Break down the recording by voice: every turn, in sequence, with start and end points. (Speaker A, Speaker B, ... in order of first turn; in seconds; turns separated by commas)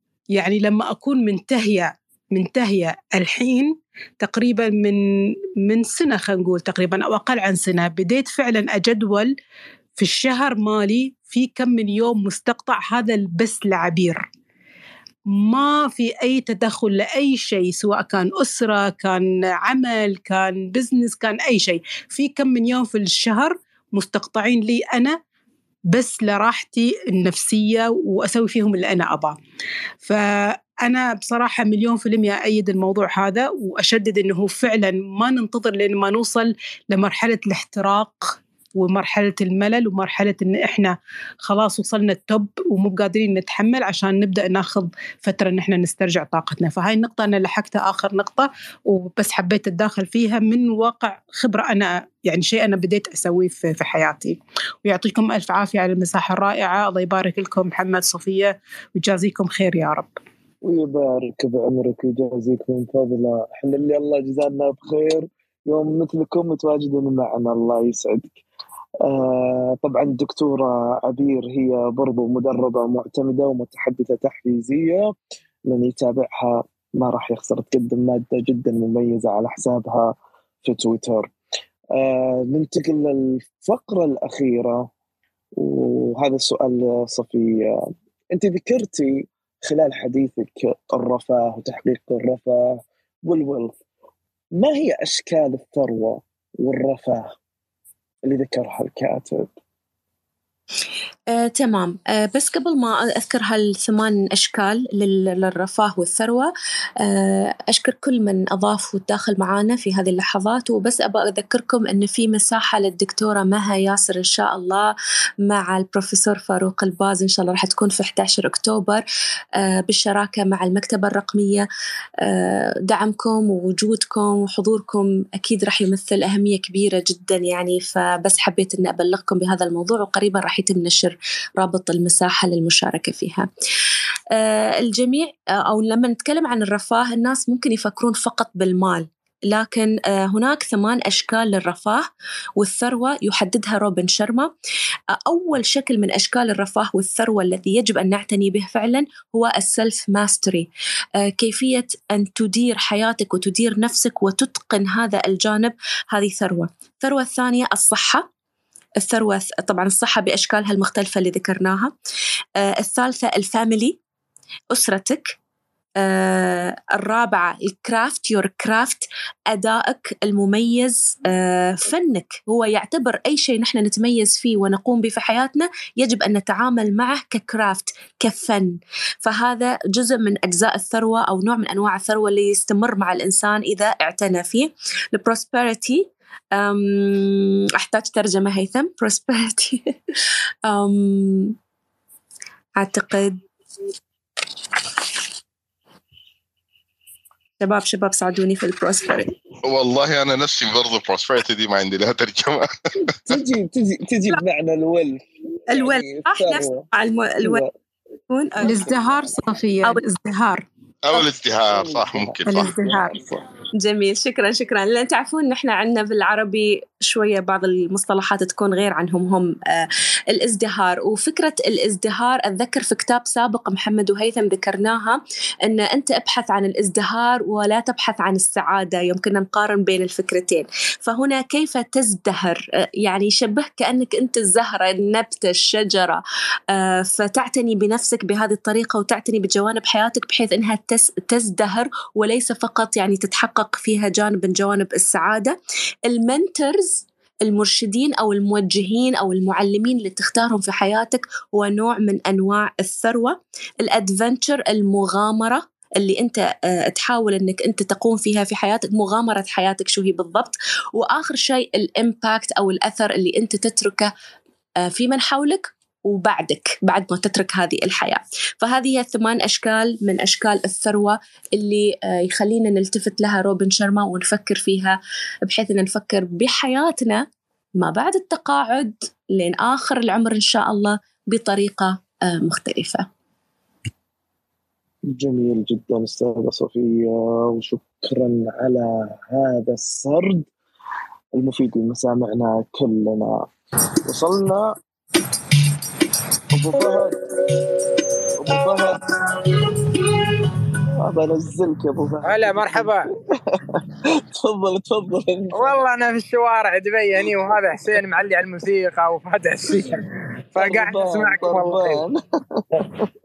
Speaker A: 0.3-5.0, Speaker A: 5.6-9.3, Speaker A: 10.0-14.2, Speaker A: 15.3-25.2, Speaker A: 25.9-29.4, Speaker A: 30.0-60.1, Speaker B: 60.6-68.4, Speaker B: 69.0-75.1, Speaker B: 75.7-81.3, Speaker B: 81.9-84.9, Speaker B: 85.6-93.8, Speaker B: 94.5-97.3, Speaker B: 98.3-99.5, Speaker C: 101.3-114.9, Speaker C: 115.4-119.0, Speaker C: 119.6-121.7, Speaker C: 122.2-133.5, Speaker C: 134.3-142.1, Speaker C: 142.6-144.5, Speaker C: 145.2-150.7, Speaker C: 151.3-158.2, Speaker C: 159.0-161.9, Speaker C: 162.6-164.0, Speaker C: 164.7-165.3, Speaker C: 166.0-189.8, Speaker C: 190.7-191.6, Speaker C: 192.8-193.4, Speaker C: 197.6-199.3, Speaker D: 199.6-203.0, Speaker B: 203.1-206.9, Speaker C: 205.7-207.6, Speaker B: 207.4-207.7, Speaker C: 208.3-208.8, Speaker A: 208.6-210.6, Speaker B: 208.7-209.4, Speaker D: 211.1-212.7, Speaker B: 211.7-213.4, Speaker A: 212.4-213.1, Speaker C: 213.8-236.2, Speaker C: 236.7-245.6, Speaker C: 246.1-264.1, Speaker C: 264.8-277.2, Speaker C: 277.8-283.1, Speaker B: 285.1-290.5, Speaker B: 291.3-293.5, Speaker B: 294.0-294.7, Speaker B: 296.5-297.2, Speaker B: 298.4-299.0, Speaker B: 301.0-305.7, Speaker E: 302.2-303.1, Speaker E: 305.5-310.0, Speaker E: 310.5-312.0, Speaker B: 310.6-313.0